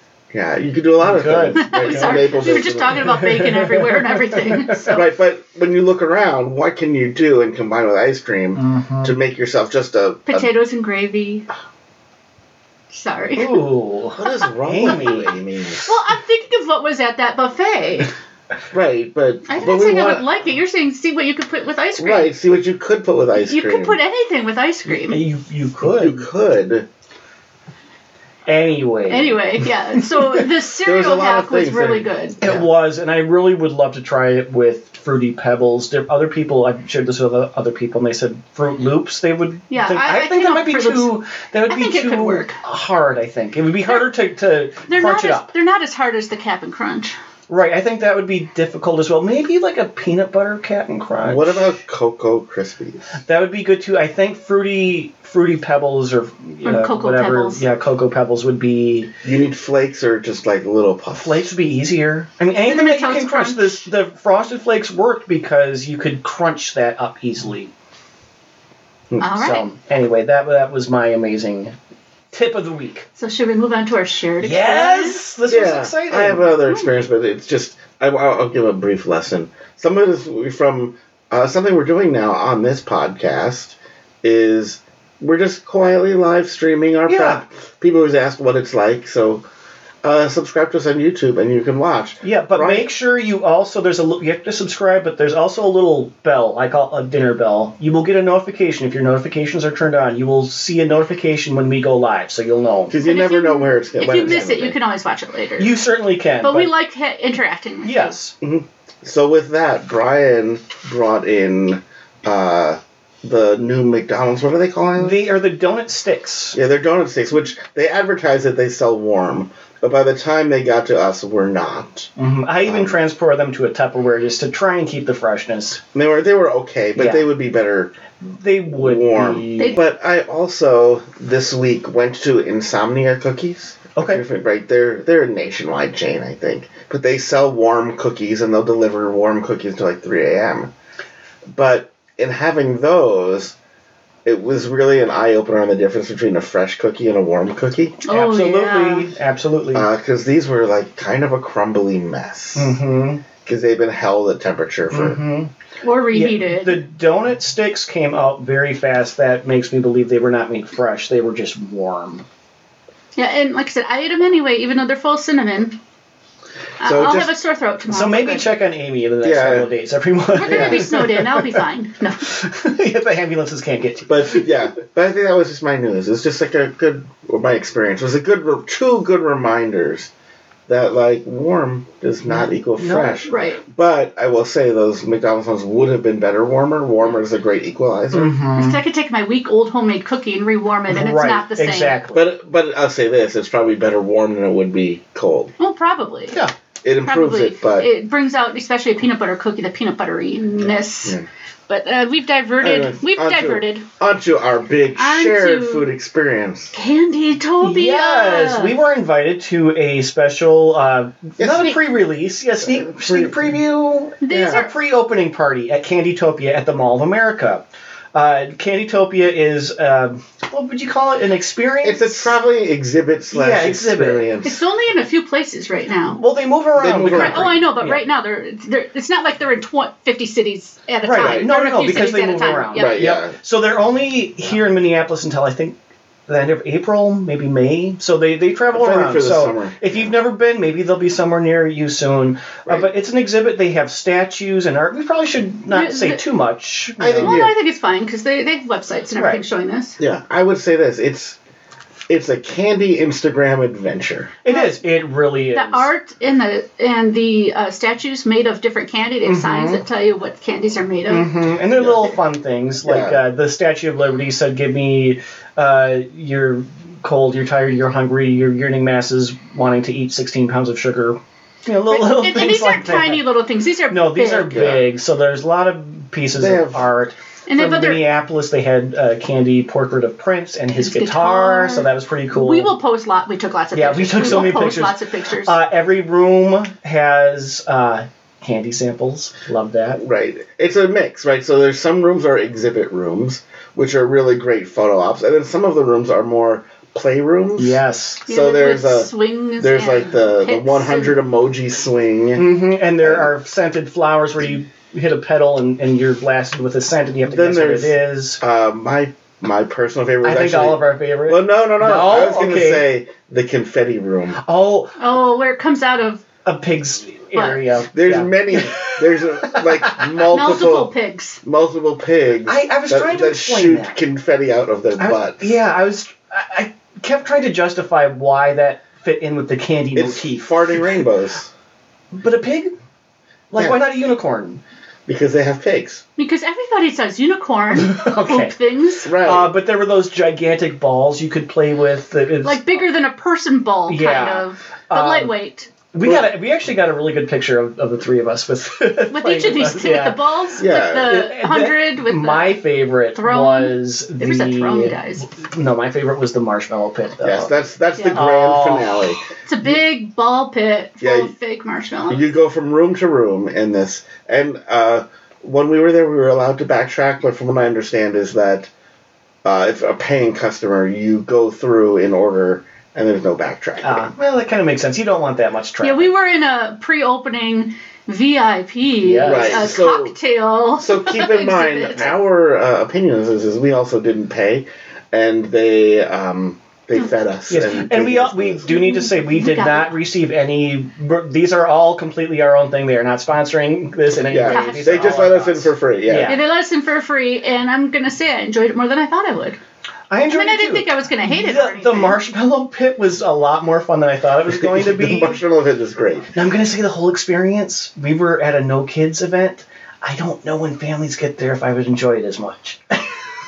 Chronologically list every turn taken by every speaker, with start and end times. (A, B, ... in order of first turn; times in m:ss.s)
0:00.3-0:03.3 A
0:01.0-0:05.0 B
0:01.6-0:05.0 C
0:04.9-0:10.5 A
0:08.5-0:09.2 B
0:10.3-0:11.5 C
0:12.9-0:13.6 C
0:13.4-0:15.3 B
0:14.2-0:16.0 A
0:14.2-0:18.1 C
0:18.7-0:20.2 A
0:19.5-0:22.3 C
0:22.0-0:24.0 A
0:23.4-0:25.2 C
0:24.9-0:26.2 B
0:25.8-0:26.9 A
0:28.5-0:29.4 B
0:29.1-0:32.4 C
0:30.1-0:30.4 B
0:30.8-0:32.7 A
0:32.4-0:45.5 B
0:39.7-0:42.6 C
0:43.8-0:44.1 C
0:44.9-0:47.1 C
0:47.5-0:51.7 B
0:51.2-0:53.1 A
0:53.2-0:59.1 B
0:56.6-0:57.6 C
0:59.2-1:01.5 A
1:01.1-1:07.7 B
1:02.5-1:03.8 C
1:09.2-1:09.6 C
1:09.2-1:11.8 B
1:12.3-1:13.0 B
1:13.2-1:15.2 C
1:14.4-1:16.5 B
1:15.5-1:29.4 A
1:27.1-1:27.4 B
1:30.0-1:32.9 A
1:32.2-1:43.0 B
1:42.9-1:44.8 A
1:43.0-1:45.8 C
1:45.6-1:46.7 B
1:46.4-1:48.2 C
1:47.8-1:48.3 B
1:48.4-1:55.3 A
1:55.0-1:56.6 B
1:56.5-2:02.1 A
2:02.2-2:05.8 B
2:02.6-2:03.0 A
2:05.9-2:07.9 A
2:06.9-2:07.3 B
2:08.2-2:09.8 B
2:08.7-2:20.7 A
2:14.0-2:14.2 B
2:21.5-2:23.6 A
2:24.2-2:28.0 A
2:28.0-2:29.0 C
2:28.1-2:29.9 B
2:29.7-2:32.8 A
2:32.5-2:33.2 B
2:33.4-2:35.2 A
2:34.9-2:35.5 B
2:35.8-2:36.8 C
2:36.1-2:42.2 B
2:43.1-2:45.8 C
2:46.8-2:48.5 C
2:46.8-2:47.3 A
2:47.9-2:51.6 B
2:49.2-2:49.7 A
2:50.3-2:52.3 C
2:50.4-2:50.9 A
2:52.2-2:54.5 B
2:54.1-3:00.1 A
3:00.7-3:08.4 A
3:02.2-3:03.2 B
3:03.2-3:03.6 C
3:08.1-3:08.8 B
3:08.5-3:12.0 C
3:10.9-3:12.3 B
3:12.1-3:15.5 A
3:15.6-3:16.4 C
3:16.8-3:17.9 A
3:17.0-3:23.8 C
3:20.6-3:21.2 A
3:22.6-3:26.7 A
3:25.0-3:25.9 C
3:26.7-3:28.7 C
3:27.6-3:42.4 B
3:31.4-3:31.8 A
3:32.6-3:33.4 A
3:34.2-3:34.7 C
3:34.3-3:34.6 A
3:41.8-3:44.6 A
3:43.3-3:44.3 B
3:44.4-3:46.2 C
3:46.1-3:48.0 B
3:46.8-3:47.6 A
3:47.1-3:53.0 C
3:51.0-3:55.8 B
3:51.2-3:51.5 A
3:52.7-3:53.3 A
3:56.3-4:07.4 B
3:58.7-4:00.1 A
4:05.7-4:06.2 C
4:07.0-4:07.5 A
4:07.2-4:10.0 C
4:09.2-4:09.4 B
4:10.0-4:11.4 A
4:12.1-4:14.3 A
4:14.4-4:15.9 B
4:14.5-4:14.8 C
4:15.5-4:21.3 C
4:19.2-4:19.8 B
4:21.1-4:33.2 B
4:21.8-4:22.2 A
4:22.8-4:23.2 A
4:31.9-4:34.6 C
4:33.9-4:42.7 B
4:34.5-4:34.8 A
4:36.4-4:36.8 A
4:37.5-4:38.0 C
4:40.8-4:45.6 C
4:43.7-4:50.0 B
4:50.0-5:03.3 A
4:57.6-4:58.2 B
4:58.3-5:01.2 C
5:02.4-5:08.4 B
5:07.3-5:14.4 A
5:10.2-5:12.8 B
5:14.4-5:15.0 B
5:15.0-5:16.2 C
5:16.4-5:20.2 B
5:17.3-5:17.7 C
5:17.9-5:20.9 A
5:20.3-5:21.4 C
5:21.4-5:25.6 A
5:22.4-5:24.0 B
5:25.0-5:30.9 B
5:29.9-5:31.5 A
5:32.2-5:32.7 B
5:33.5-5:34.6 B
5:35.1-5:36.0 A
5:36.2-5:39.1 C
5:37.7-5:38.5 B
5:39.0-5:39.5 A
5:39.2-5:42.8 B
5:42.4-5:45.7 C
5:43.9-5:45.3 B
5:45.9-5:50.2 B
5:46.0-5:46.3 A
5:49.1-5:52.6 C
5:50.6-5:51.2 A
5:51.0-5:57.5 B
5:53.1-5:55.2 C
5:57.2-5:59.2 A
5:58.0-5:58.2 C
5:58.1-5:59.2 B
5:59.4-6:02.3 C
6:01.0-6:01.3 A
6:02.1-6:08.7 A
6:09.4-6:14.1 A
6:13.8-6:16.1 B
6:15.8-6:22.2 C
6:19.0-6:19.7 B
6:19.2-6:20.1 A
6:20.8-6:28.6 A
6:27.5-6:36.4 B
6:28.7-6:29.9 C
6:34.3-6:36.4 A
6:34.5-6:35.2 C
6:36.2-6:39.6 C
6:40.1-6:45.4 B
6:40.3-6:42.2 C
6:44.5-6:46.3 A
6:46.3-6:53.0 B